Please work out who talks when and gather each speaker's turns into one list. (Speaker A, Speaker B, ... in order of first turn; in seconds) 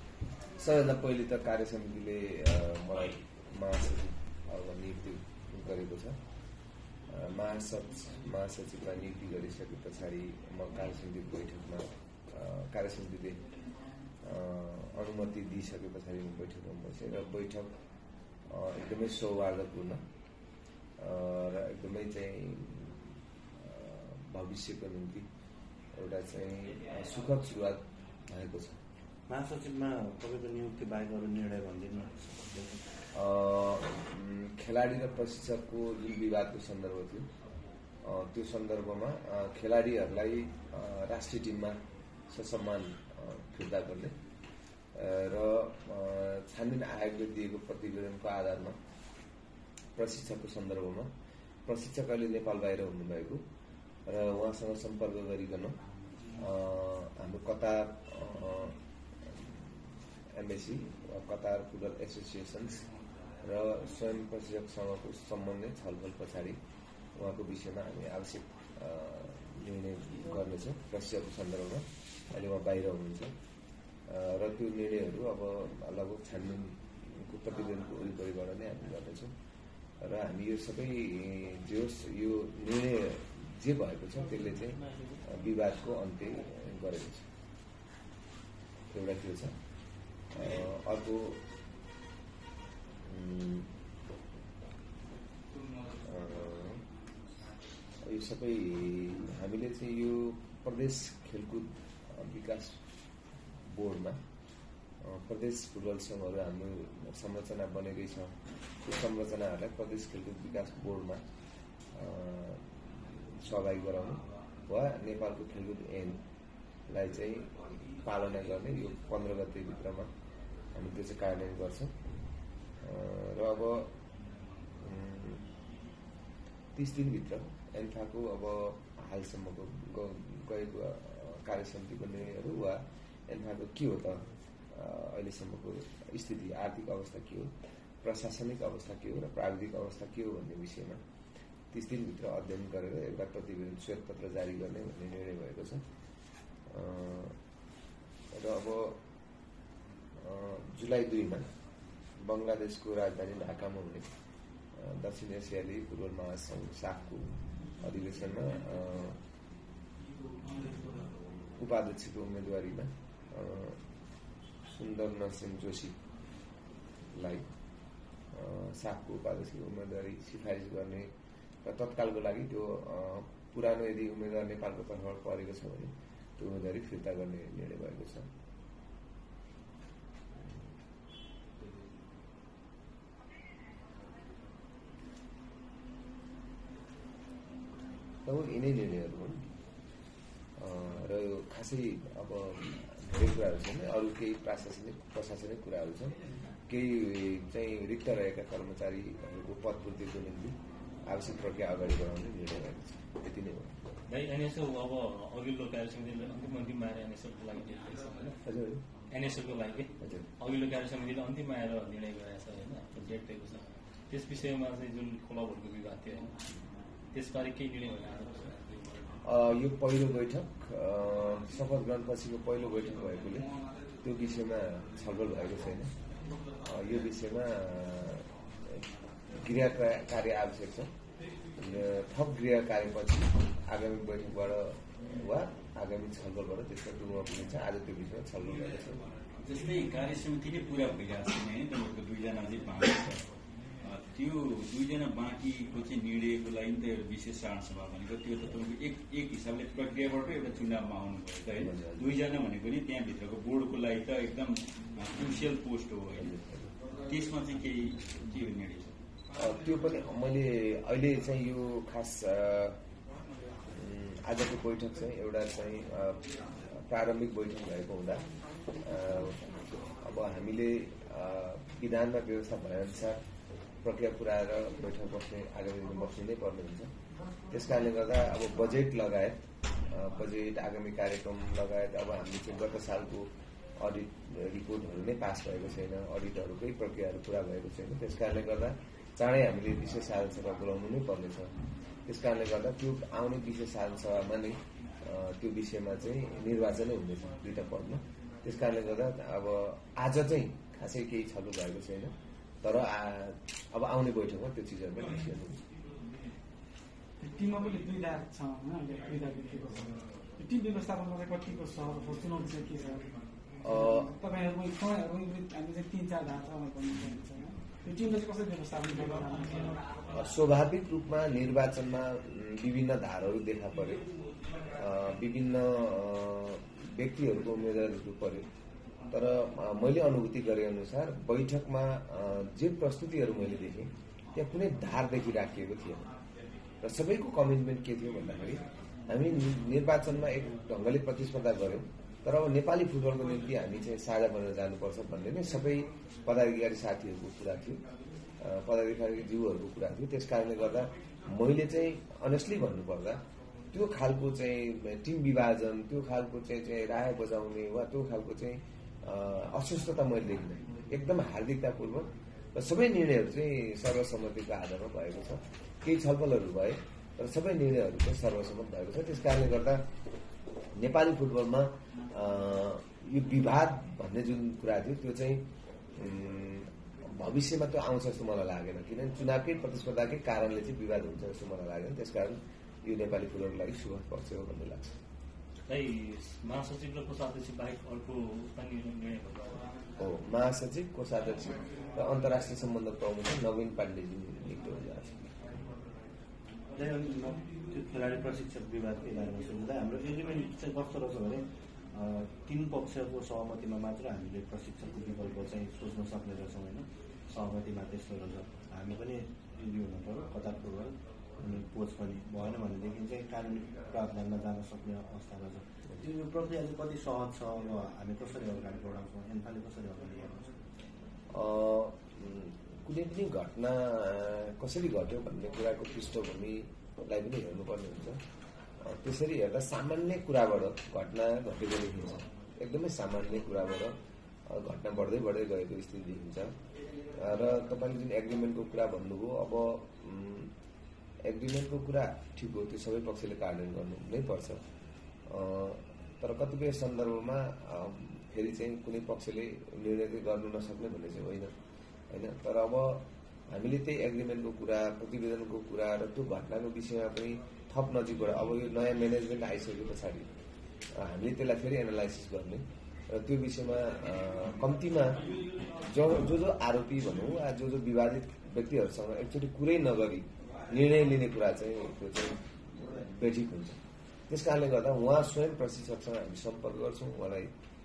Speaker A: 0.6-6.2, 7.1-13.4, 14.2-17.7, 18.5-20.0, 21.0-25.2, 26.0-28.8, 33.1-37.3, 38.0-41.8, 42.3-44.1, 44.9-48.8, 50.0-51.1, 51.6-53.4, 54.0-55.8, 56.3-62.9, 63.4-66.6, 67.2-73.3, 74.1-79.3, 80.0-87.3, 88.9-89.6, 90.3-91.4, 93.0-93.7, 96.0-96.8, 98.0-102.8, 103.6-104.2, 105.0-111.2, 111.9-112.7, 113.4-116.2, 116.9-120.1, 120.7-122.0, 122.8-123.9, 124.8-125.5, 126.8-141.0, 141.7-145.8, 146.7-147.4, 148.3-149.0, 150.2-151.5, 152.2-154.1, 154.7-159.2, 161.6-163.8, 164.7-166.0, 167.1-167.4, 168.3-171.1, 171.6-178.3, 188.2-189.5, 190.6-203.8, 208.4-208.8, 219.2-223.5, 224.0-225.9, 226.6-228.8, 229.3-230.9, 231.6-239.1, 251.6-252.1, 256.2-256.6, 259.4-262.8, 263.7-273.2, 273.8-276.9, 277.5-291.5, 292.1-305.6, 313.6-314.1, 320.1-324.0, 324.7-328.5, 329.1-336.1, 336.8-347.9, 348.4-369.9, 370.8-385.0, 390.0-395.4, 421.3-428.2, 428.8-433.9, 434.5-436.5, 437.1-440.5, 441.2-444.6, 445.3-451.5, 452.1-460.3, 461.0-477.5
Speaker B: 29.3-32.9, 396.8-420.5
Speaker C: 204.1-208.4, 209.1-216.3, 217.1-219.0, 385.7-389.7
Speaker D: 239.4-243.2, 243.8-259.0
Speaker E: 307.2-313.1, 313.6-319.8